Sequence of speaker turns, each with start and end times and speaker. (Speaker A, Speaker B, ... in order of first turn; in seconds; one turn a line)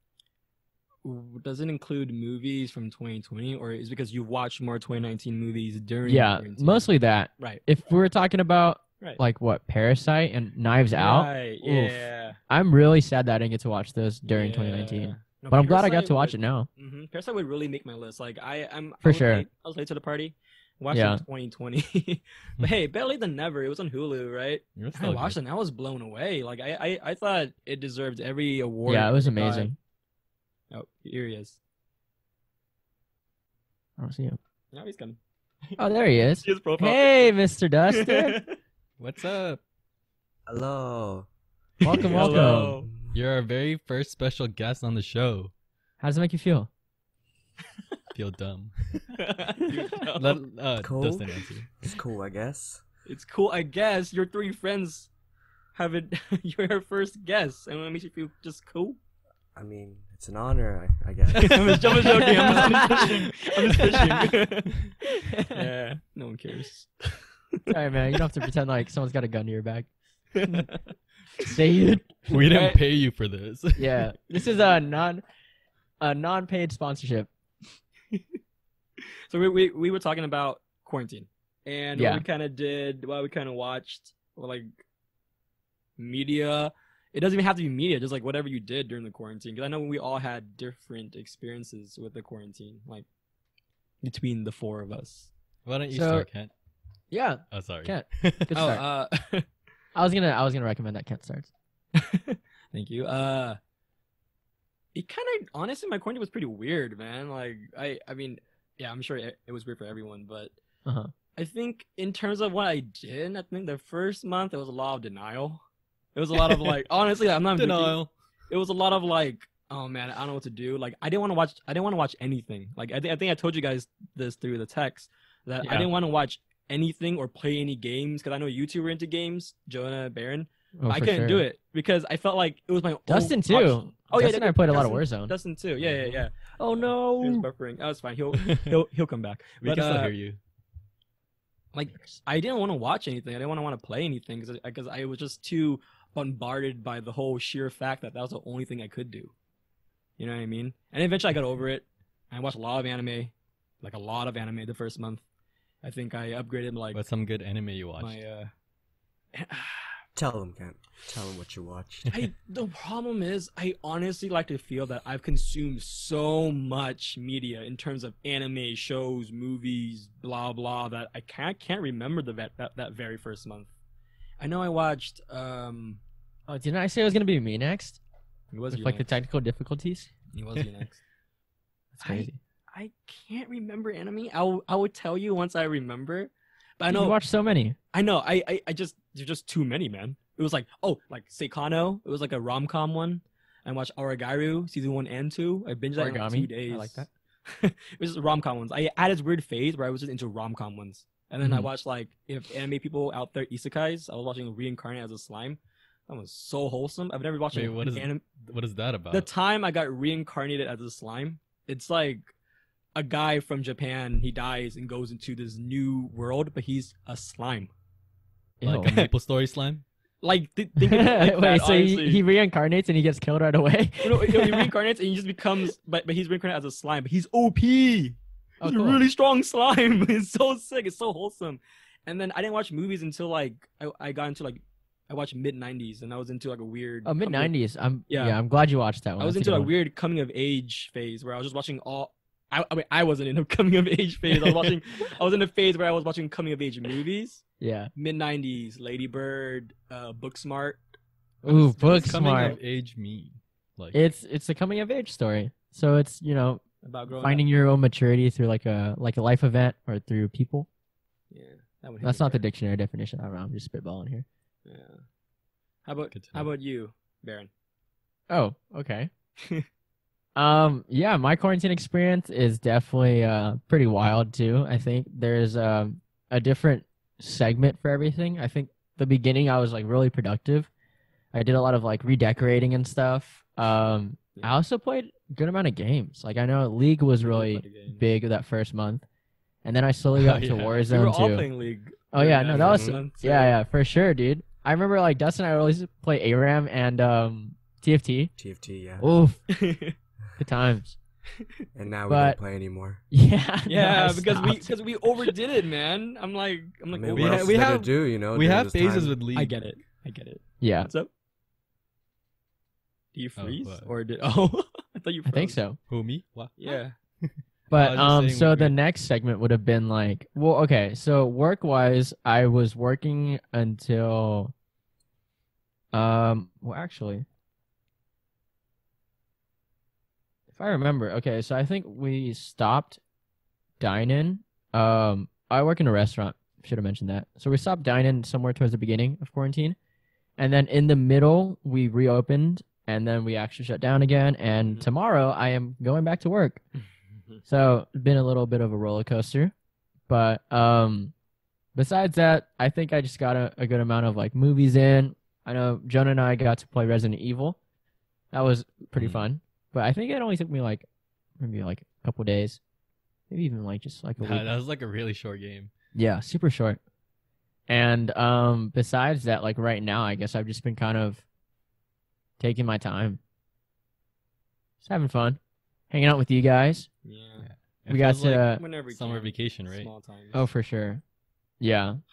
Speaker A: 1.0-7.6
Speaker B: 6.0-16.7
Speaker A: 10.9-12.4
Speaker A: 14.2-29.7
Speaker B: 19.0-19.4
Speaker B: 20.9-21.2
Speaker C: 24.8-25.4
Speaker B: 28.9-29.8
Speaker A: 30.7-31.6
Speaker B: 34.0-34.4
Speaker A: 34.7-35.2
Speaker B: 35.8-38.4
Speaker A: 36.4-37.4
Speaker A: 37.9-38.6
Speaker C: 39.0-39.6
Speaker D: 40.5-41.3
Speaker B: 41.8-42.8
Speaker A: 41.9-42.9
Speaker C: 42.1-42.6
Speaker C: 43.1-45.5
Speaker B: 46.0-46.7
Speaker C: 48.1-49.2
Speaker A: 49.2-50.4
Speaker C: 50.1-51.7
Speaker D: 50.8-52.8
Speaker A: 53.0-55.1
Speaker A: 55.7-59.0
Speaker D: 59.5-62.2
Speaker A: 61.3-64.9
Speaker B: 62.2-64.3
Speaker B: 65.2-65.6
Speaker A: 65.5-68.2
Speaker B: 67.7-69.9
Speaker A: 70.3-70.8
Speaker B: 71.4-72.5
Speaker C: 72.3-74.1
Speaker A: 72.5-72.8
Speaker B: 73.8-75.2
Speaker B: 76.0-77.3
Speaker A: 79.0-84.7
Speaker B: 81.9-82.2
Speaker A: 86.0-93.0
Speaker A: 94.0-95.3
Speaker C: 95.6-96.5
Speaker B: 95.9-96.3
Speaker B: 97.1-98.8
Speaker C: 97.5-98.7
Speaker A: 98.5-99.5
Speaker B: 99.9-101.5
Speaker A: 101.9-103.6
Speaker A: 104.9-110.5
Speaker B: 110.8-111.1
Speaker A: 111.3-115.6
Speaker A: 116.1-118.0
Speaker C: 117.5-118.1
Speaker A: 118.5-140.1
Speaker B: 125.6-125.9
Speaker B: 130.8-131.4
Speaker B: 133.1-135.3
Speaker C: 135.8-136.1
Speaker B: 136.6-137.5
Speaker C: 138.3-138.7
Speaker C: 139.6-140.4
Speaker A: 141.7-149.3
Speaker A: 150.2-155.2
Speaker A: 155.8-157.0
Speaker C: 156.9-158.2
Speaker A: 158.0-158.5
Speaker A: 159.3-160.0
Speaker D: 160.2-162.1
Speaker A: 162.1-173.7
Speaker A: 174.4-176.0
Speaker B: 176.5-178.0
Speaker A: 178.5-179.1
Speaker B: 178.7-180.1
Speaker A: 180.3-181.0
Speaker B: 181.9-182.4
Speaker A: 182.0-187.2
Speaker B: 186.9-187.8
Speaker A: 187.9-208.2
Speaker B: 195.9-197.1
Speaker B: 201.4-201.7
Speaker C: 207.5-209.3
Speaker A: 209.1-212.3
Speaker A: 212.9-217.7
Speaker B: 218.6-218.9
Speaker C: 218.6-219.8
Speaker A: 220.2-222.2
Speaker B: 220.8-224.7
Speaker A: 224.0-237.5
Speaker B: 228.6-229.0
Speaker B: 237.0-239.7
Speaker A: 238.1-238.4
Speaker A: 239.2-247.4
Speaker B: 247.6-247.9
Speaker A: 247.9-250.8
Speaker B: 251.4-252.6
Speaker C: 251.4-254.0
Speaker A: 251.5-252.6
Speaker B: 253.9-260.7
Speaker A: 256.8-257.5
Speaker A: 261.3-262.4
Speaker B: 262.0-264.2
Speaker A: 264.6-265.0
Speaker A: 265.8-267.5
Speaker C: 266.1-266.5
Speaker B: 268.3-269.1
Speaker A: 269.4-269.6
Speaker B: 270.4-280.7
Speaker B: 281.3-289.0
Speaker A: 287.2-288.0
Speaker B: 289.6-291.5
Speaker C: 290.1-290.8
Speaker A: 290.8-293.6
Speaker B: 292.1-298.3
Speaker D: 292.5-293.0
Speaker D: 298.4-299.1
Speaker B: 299.0-299.4
Speaker A: 299.5-299.9
Speaker B: 300.4-301.0
Speaker D: 301.7-303.0
Speaker B: 302.1-302.4
Speaker B: 303.1-304.8
Speaker A: 303.7-307.6
Speaker D: 306.9-309.2
Speaker C: 307.1-309.6
Speaker A: 309.3-311.1
Speaker B: 310.6-310.9
Speaker A: 313.1-315.6
Speaker C: 313.4-313.9
Speaker B: 315.2-315.8
Speaker C: 315.9-316.7
Speaker A: 316.6-316.9
Speaker C: 317.2-318.8
Speaker B: 317.7-324.5
Speaker B: 325.9-327.2
Speaker B: 330.5-333.0
Speaker B: 333.8-339.8
Speaker B: 340.4-346.6
Speaker A: 344.6-344.9
Speaker B: 347.4-349.5
Speaker B: 350.1-351.1
Speaker B: 351.7-357.6
Speaker B: 358.3-360.9
Speaker C: 358.9-359.3
Speaker B: 361.4-362.6
Speaker B: 363.3-364.5
Speaker C: 364.2-365.7
Speaker B: 365.9-366.8
Speaker B: 367.7-371.2
Speaker B: 372.4-373.2
Speaker B: 374.8-375.4
Speaker B: 375.9-376.9
Speaker A: 377.0-377.5
Speaker C: 377.4-379.9
Speaker B: 377.9-378.6
Speaker A: 378.5-380.4
Speaker B: 380.3-381.0
Speaker B: 381.6-382.0